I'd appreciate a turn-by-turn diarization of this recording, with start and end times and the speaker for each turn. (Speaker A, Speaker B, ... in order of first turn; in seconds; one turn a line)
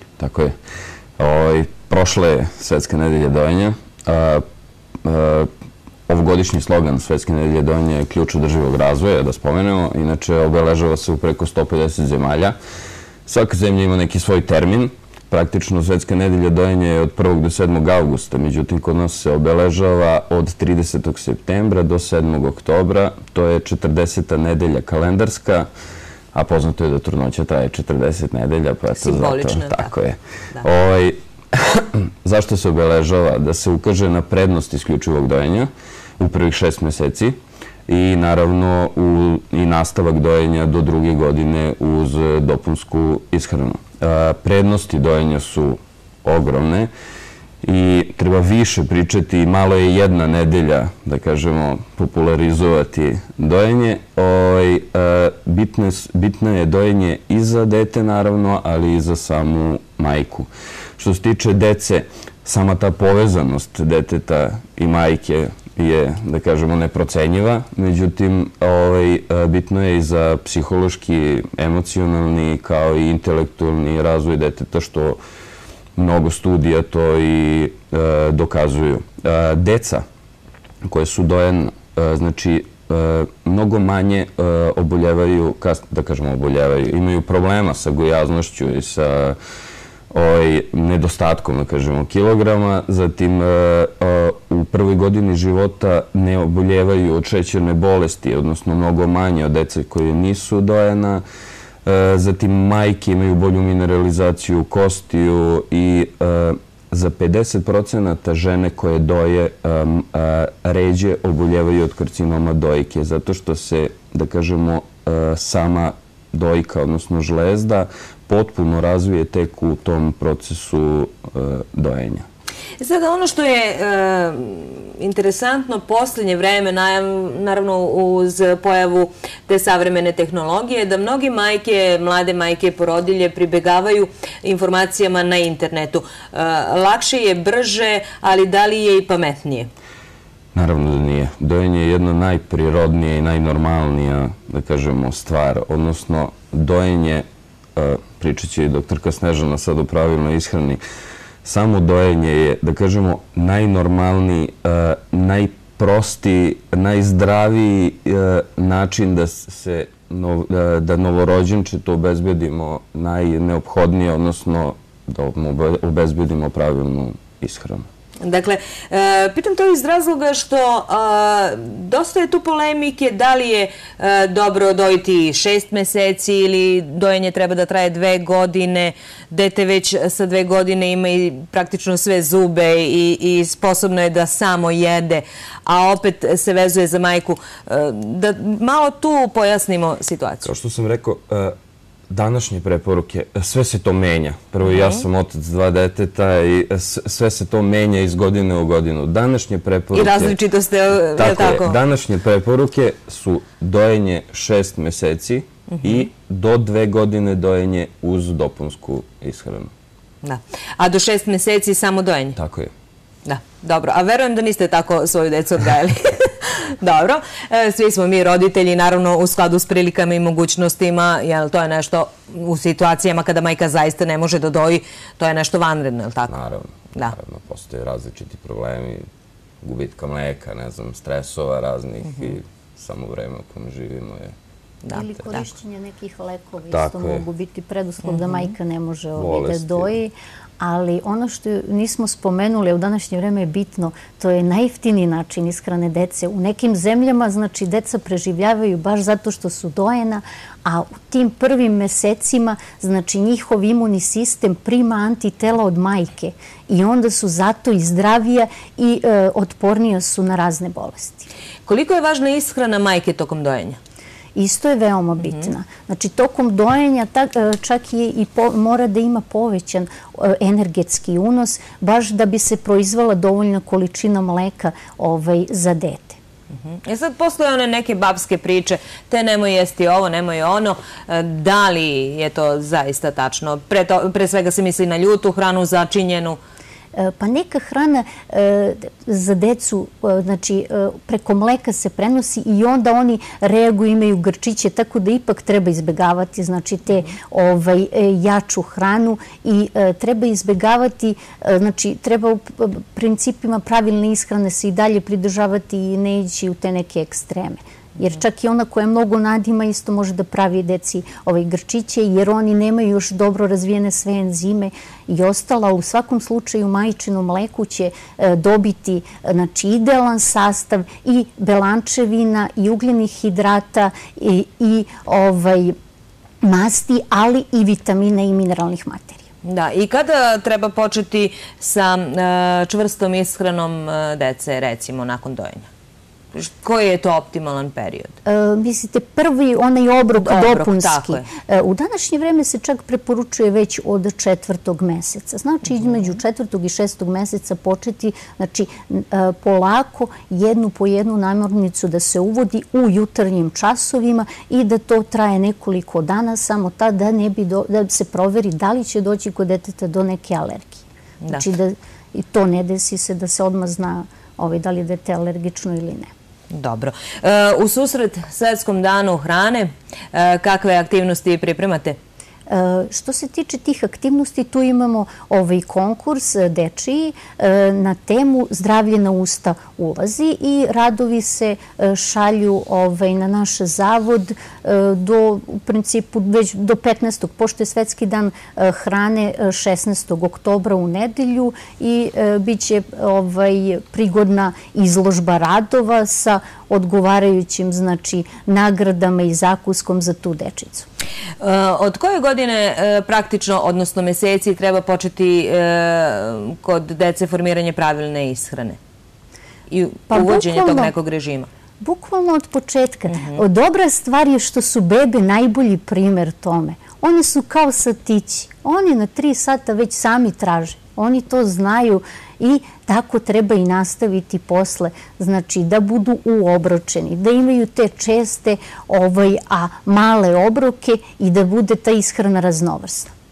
Speaker A: 0.2-0.5
Speaker A: 1.2-4.4
Speaker A: 5.0-5.5
Speaker A: 6.1-12.6
Speaker A: 13.3-25.7
Speaker A: 26.4-37.4
Speaker B: 29.0-29.9
Speaker A: 37.9-46.9
Speaker A: 47.6-75.2
Speaker A: 76.0-80.0
Speaker A: 80.9-89.4
Speaker A: 90.1-101.2
Speaker A: 101.9-122.2
Speaker B: 122.8-139.7
Speaker A: 140.6-147.2
Speaker A: 147.8-150.8
Speaker A: 151.4-167.9
Speaker B: 168.2-190.5
Speaker A: 190.4-191.5
Speaker A: 192.1-200.4
Speaker B: 194.7-195.0
Speaker B: 199.9-201.8
Speaker A: 201.1-209.7
Speaker B: 205.7-206.1
Speaker B: 210.2-212.4
Speaker A: 212.4-212.7
Speaker B: 213.2-226.3
Speaker A: 226.3-229.1
Speaker A: 229.6-234.3
Speaker B: 234.8-235.4
Speaker C: 234.9-261.3
Speaker A: 236.7-237.3
Speaker B: 238.1-238.5
Speaker A: 239.2-239.9
Speaker B: 261.7-263.8
Speaker C: 264.4-276.2
Speaker B: 276.6-286.4
Speaker C: 287.0-325.7
Speaker C: 326.4-329.2
Speaker B: 329.4-335.7
Speaker B: 336.3-338.1
Speaker C: 338.2-366.1
Speaker B: 340.2-341.3
Speaker B: 361.2-361.5
Speaker B: 366.5-372.0
Speaker C: 372.5-400.9
Speaker B: 401.4-408.8
Speaker B: 409.7-411.5
Speaker C: 410.1-410.9
Speaker C: 411.8-433.1
Speaker B: 413.1-413.4